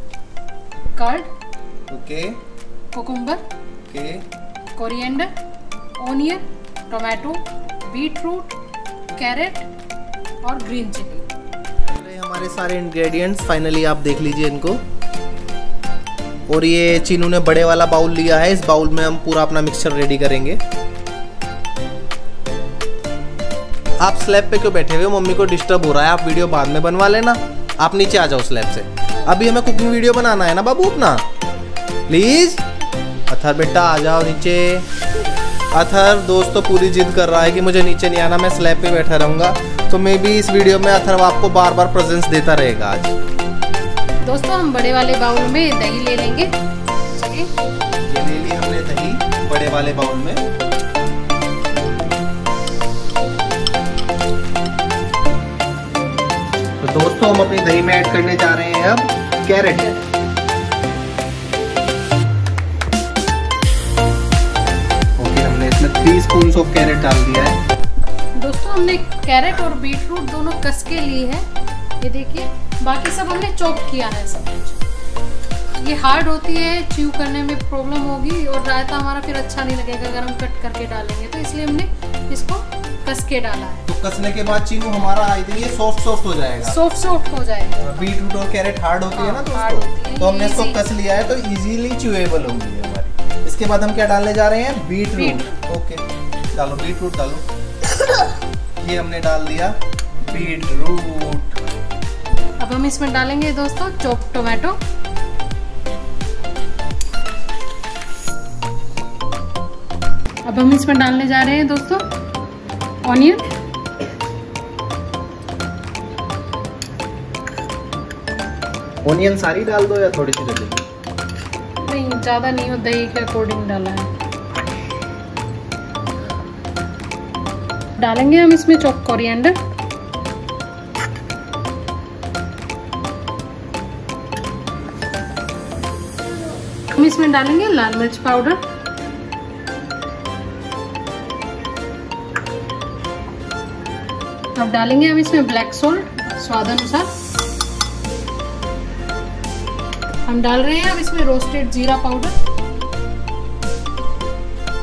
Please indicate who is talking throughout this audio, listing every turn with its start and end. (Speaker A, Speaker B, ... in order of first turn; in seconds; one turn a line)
Speaker A: 0.9-1.3
Speaker B: 1.9-2.4
Speaker A: 2.9-3.4
Speaker B: 3.9-4.3
Speaker A: 4.8-5.3
Speaker A: 6.0-8.6
Speaker A: 9.1-9.7
Speaker A: 10.4-11.3
Speaker B: 12.0-14.8
Speaker B: 16.5-20.6
Speaker B: 24.0-31.2
Speaker B: 32.1-32.6
Speaker B: 33.3-34.9
Speaker B: 35.7-43.2
Speaker A: 44.2-46.5
Speaker A: 47.1-47.5
Speaker B: 48.0-50.5
Speaker B: 56.8-60.0
Speaker B: 65.2-67.6
Speaker A: 68.4-71.5
Speaker A: 72.0-74.8
Speaker A: 75.8-83.9
Speaker B: 83.9-86.8
Speaker A: 86.6-88.1
Speaker B: 87.8-96.0
Speaker A: 89.1-90.8
Speaker A: 95.1-95.6
Speaker B: 96.5-97.5
Speaker B: 98.8-101.6
Speaker A: 102.6-104.8
Speaker A: 110.5-112.0
Speaker A: 113.0-113.5
Speaker B: 119.0-120.8
Speaker A: 121.8-124.1
Speaker A: 128.0-129.6
Speaker A: 136.9-138.6
Speaker A: 144.6-147.1
Speaker A: 150.3-152.3